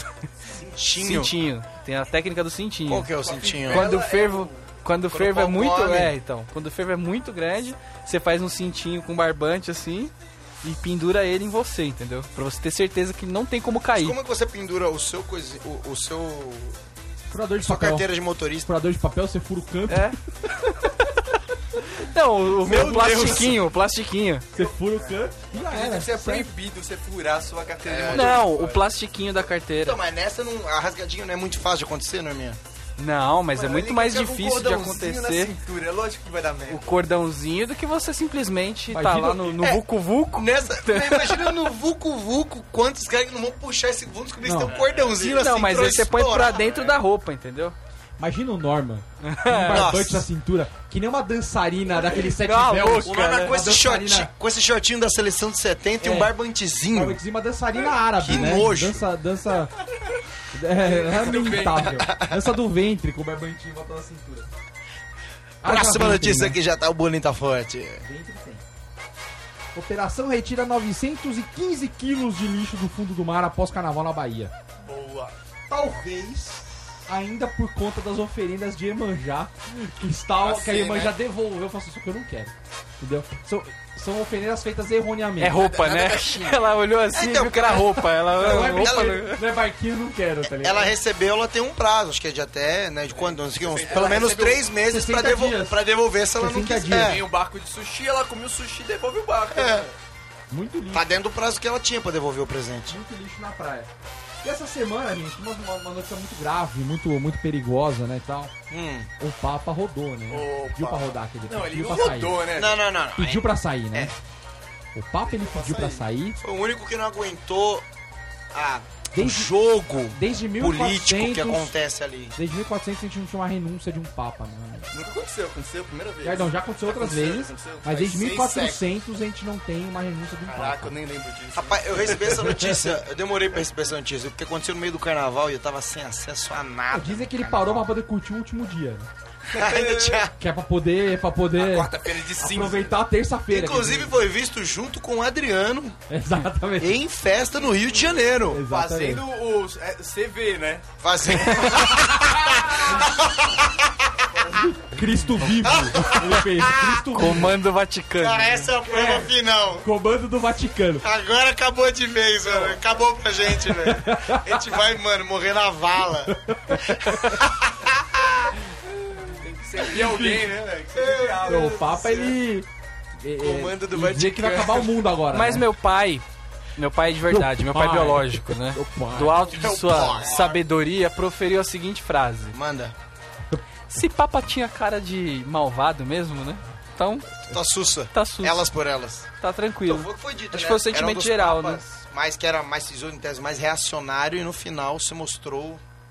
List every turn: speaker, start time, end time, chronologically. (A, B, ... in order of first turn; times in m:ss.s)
0:00.6-0:01.3 A
0:01.0-0:03.1 B
0:02.9-0:03.9 A
0:03.2-0:04.7 C
0:03.7-0:14.2 B
0:05.1-0:06.2 A
0:14.0-0:16.8 A
0:17.3-0:18.1 D
0:17.6-0:18.7 A
0:18.6-0:20.2 D
0:19.9-0:20.2 B
0:22.0-0:24.5 B
0:22.6-0:23.6 A
0:22.7-0:23.4 C
0:22.8-0:23.3 D
0:24.5-0:26.5 D
0:25.5-0:28.8 C
0:27.8-0:28.4 A
0:28.1-0:30.0 B
0:29.8-0:32.6 A
0:33.0-0:35.6 B
0:33.5-0:37.0 C
0:36.7-0:41.6 B
0:38.9-0:39.7 D
0:40.4-0:46.8 A
0:44.4-0:44.8 D
0:44.7-0:45.2 C
0:45.2-0:47.8 B
0:48.2-0:54.3 D
0:49.2-0:49.9 B
0:49.7-0:50.3 A
0:52.1-0:53.5 B
0:53.0-0:57.2 A
0:56.0-0:56.3 D
0:56.9-0:59.7 D
0:58.1-0:59.0 A
1:00.5-1:04.5 D
1:00.8-1:02.1 C
1:02.0-1:02.4 A
1:05.6-1:06.6 D
1:05.6-1:08.0 A
1:08.0-1:08.6 D
1:09.7-1:14.5 D
1:14.9-1:15.3 E
1:14.9-1:15.3 C
1:15.7-1:25.6 D
1:20.4-1:21.1 E
1:25.4-1:29.4 B
1:25.8-1:26.4 C
1:27.1-1:29.3 A
1:28.4-1:30.9 D
1:30.6-1:37.2 A
1:33.2-1:34.6 C
1:33.9-1:34.2 E
1:34.8-1:35.8 D
1:36.4-1:37.2 D
1:36.9-1:40.0 C
1:39.5-1:39.9 A
1:40.5-1:41.1 D
1:40.9-1:43.0 A
1:42.9-1:43.9 D
1:44.4-1:48.5 D
1:48.7-1:49.1 A
1:49.2-1:52.5 D
1:50.3-1:50.9 C
1:51.5-1:52.8 C
1:52.5-1:54.1 A
1:53.2-1:54.2 D
1:55.0-1:56.4 D
1:55.3-1:56.0 E
1:56.4-1:57.8 A
1:58.5-2:02.4 A
1:59.1-1:59.5 D
2:00.1-2:01.8 D
2:02.4-2:04.9 D
2:04.9-2:08.4 E
2:06.2-2:11.0 D
2:08.2-2:08.6 C
2:10.5-2:12.5 E
2:11.6-2:17.9 A
2:12.1-2:12.9 D
2:16.9-2:19.1 D
2:19.5-2:20.3 C
2:19.5-2:20.3 A
2:20.4-2:24.2 D
2:21.6-2:23.0 C
2:23.5-2:26.0 A
2:26.1-2:27.0 D
2:26.8-2:28.6 A
2:28.5-2:29.2 D
2:28.6-2:30.9 C
2:31.0-2:34.4 A
2:34.5-2:37.6 D
2:35.6-2:37.1 A
2:37.1-2:38.7 B
2:38.2-2:39.8 A
2:38.9-2:41.0 D
2:41.0-2:48.6 A
2:43.8-2:44.4 D
2:46.3-2:47.4 D
2:49.3-2:52.4 C
2:49.9-2:50.6 D
2:51.0-2:51.4 A
2:51.4-2:52.7 D
2:53.2-2:55.7 D
2:53.4-2:54.9 A
2:55.3-2:56.2 B
2:56.8-3:02.6 B
2:57.3-2:59.5 D
2:59.5-3:00.6 A
3:02.5-3:03.0 A
3:03.9-3:07.5 B
3:07.5-3:09.3 A
3:08.1-3:08.7 B
3:09.4-3:11.8 B
3:09.9-3:15.8 A